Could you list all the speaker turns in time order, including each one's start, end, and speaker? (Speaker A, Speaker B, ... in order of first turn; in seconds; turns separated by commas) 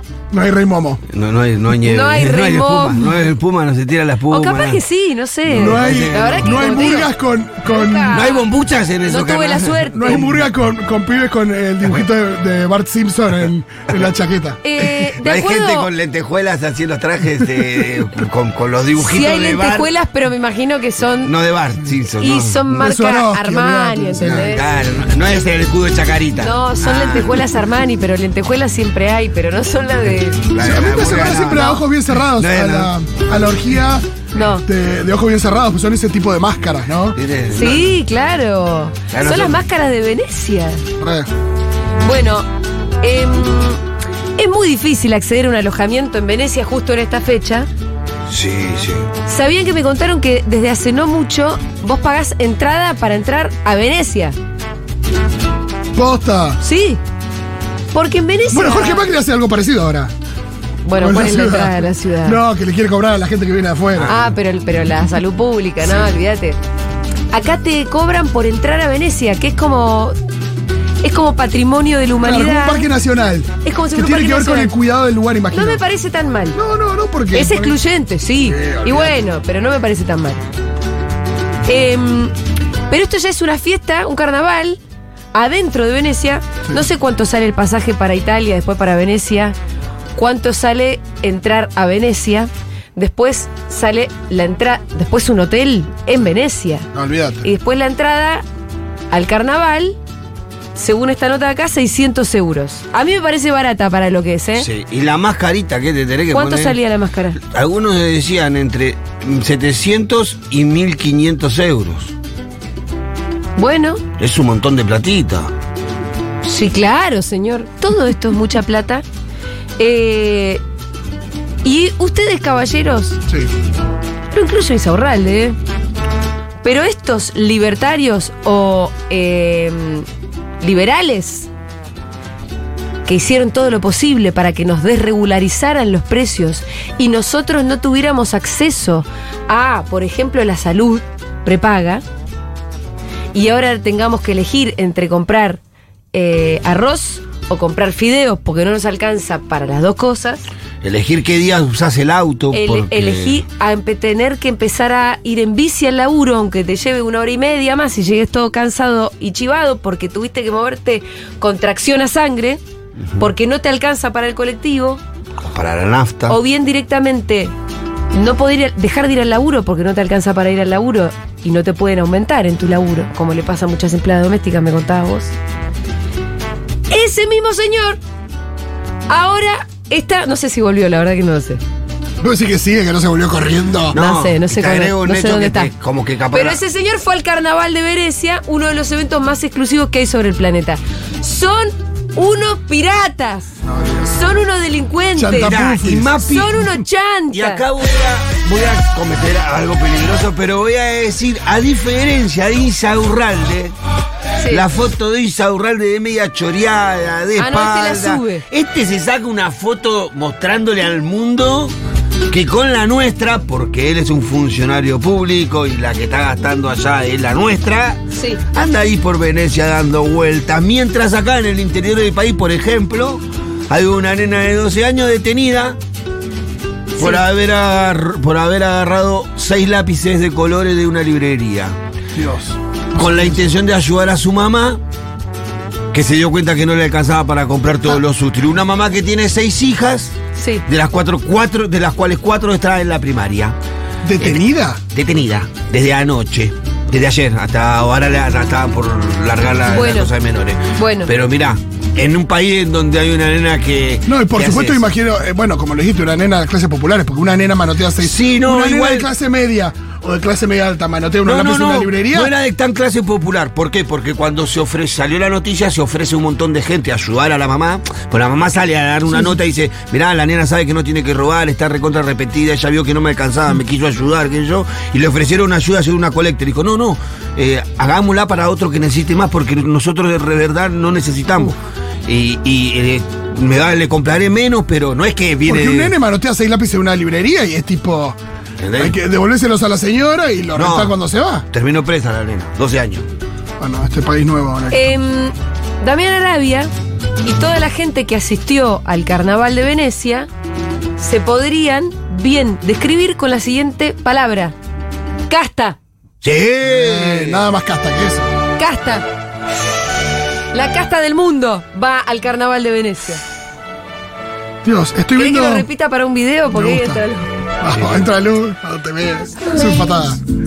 Speaker A: 0.3-1.0, Speaker B: 1.1-4.8, Speaker C: 1.8-3.2, Speaker C: 4.3-8.5, Speaker B: 5.5-6.6, Speaker A: 5.5-8.2, Speaker B: 8.1-10.5, Speaker C: 9.1-10.2, Speaker A: 10.0-14.6, Speaker C: 14.6-15.9, Speaker B: 14.8-19.9, Speaker C: 18.9-21.3, Speaker B: 21.2-22.8, Speaker C: 22.2-24.7, Speaker A: 22.7-24.6, Speaker B: 24.5-27.4, Speaker C: 26.4-30.5, Speaker B: 30.5-31.8, Speaker A: 30.6-34.0, Speaker C: 31.4-31.8, Speaker B: 32.4-32.9, Speaker C: 34.3-34.6, Speaker A: 34.6-37.9, Speaker B: 37.1-37.8, Speaker C: 37.5-40.8, Speaker B: 39.1-39.6, Speaker A: 41.0-41.3, Speaker C: 42.0-42.5, Speaker C: 43.0-43.8, Speaker C: 44.4-47.7, Speaker B: 48.3-49.0, Speaker C: 49.2-54.4, Speaker A: 55.9-56.6, Speaker C: 56.6-57.0, Speaker C: 57.9-59.1, Speaker A: 58.5-60.1, Speaker C: 60.8-62.4, Speaker A: 61.0-64.1, Speaker B: 64.0-64.3, Speaker C: 64.1-66.6, Speaker A: 65.8-66.1, Speaker C: 67.3-70.1, Speaker C: 71.0-72.9, Speaker A: 72.2-75.8, Speaker C: 73.6-74.7, Speaker C: 75.5-76.6, Speaker A: 76.5-77.8, Speaker C: 77.3-80.4, Speaker A: 78.4-79.2, Speaker C: 81.6-82.3, Speaker C: 82.9-84.8, Speaker C: 85.3-89.5, Speaker C: 90.2-96.9, Speaker A: 96.9-97.4, Speaker C: 97.4-98.4, Speaker C: 99.1-100.0, Speaker C: 100.7-104.7, Speaker B: 104.5-106.8, Speaker C: 106.3-107.4, Speaker B: 107.4-112.1, Speaker C: 113.5-114.0, Speaker B: 114.2-115.5, Speaker C: 116.4-119.0, Speaker C: 119.8-120.6, Speaker C: 121.6-123.2, Speaker C: 124.3-125.6, Speaker C: 126.6-130.1, Speaker C: 130.6-131.5, Speaker C: 133.0-142.0, Speaker C: 143.3-145.6, Speaker C: 146.1-150.4, Speaker B: 150.8-153.4, Speaker C: 152.5-162.6, Speaker C: 163.2-165.0, Speaker B: 165.4-166.4, Speaker C: 166.3-167.5, Speaker C: 168.1-175.3, Speaker C: 176.9-178.0, Speaker C: 179.1-181.6, Speaker A: 182.2-183.9, Speaker B: 183.9-186.6, Speaker C: 183.9-185.7, Speaker C: 186.3-193.5, Speaker A: 193.6-194.2, Speaker C: 194.1-195.5, Speaker A: 195.2-196.4, Speaker B: 195.4-196.5, Speaker C: 196.3-197.6, Speaker B: 197.3-203.8, Speaker B: 204.5-211.7, Speaker C: 207.4-208.4, Speaker B: 212.3-225.8, Speaker C: 218.1-218.4, Speaker C: 227.0-227.2, Speaker B: 227.0-231.8, Speaker A: 232.1-233.5, Speaker B: 233.0-234.8, Speaker B: 235.9-240.1, Speaker C: 240.3-240.6, Speaker B: 240.7-243.6, Speaker A: 244.0-244.8, Speaker B: 244.2-254.9, Speaker C: 249.6-250.1, Speaker C: 250.7-251.1, Speaker A: 254.1-262.3, Speaker B: 258.0-259.1, Speaker B: 261.2-286.0, Speaker A: 285.4-288.2, Speaker B: 288.6-288.9, Speaker A: 288.8-291.5, Speaker B: 290.5-290.9, Speaker B: 291.5-293.1, Speaker A: 293.6-294.9, Speaker C: 294.7-296.7, Speaker C: 297.2-300.3, Speaker C: 301.0-304.6, Speaker C: 305.3-305.8, Speaker B: 306.2-307.5, Speaker A: 306.6-308.3, Speaker C: 308.6-309.1, Speaker C: 310.5-313.2, Speaker A: 314.6-315.7, Speaker C: 315.1-317.3, Speaker A: 316.5-317.0, Speaker A: 317.6-320.2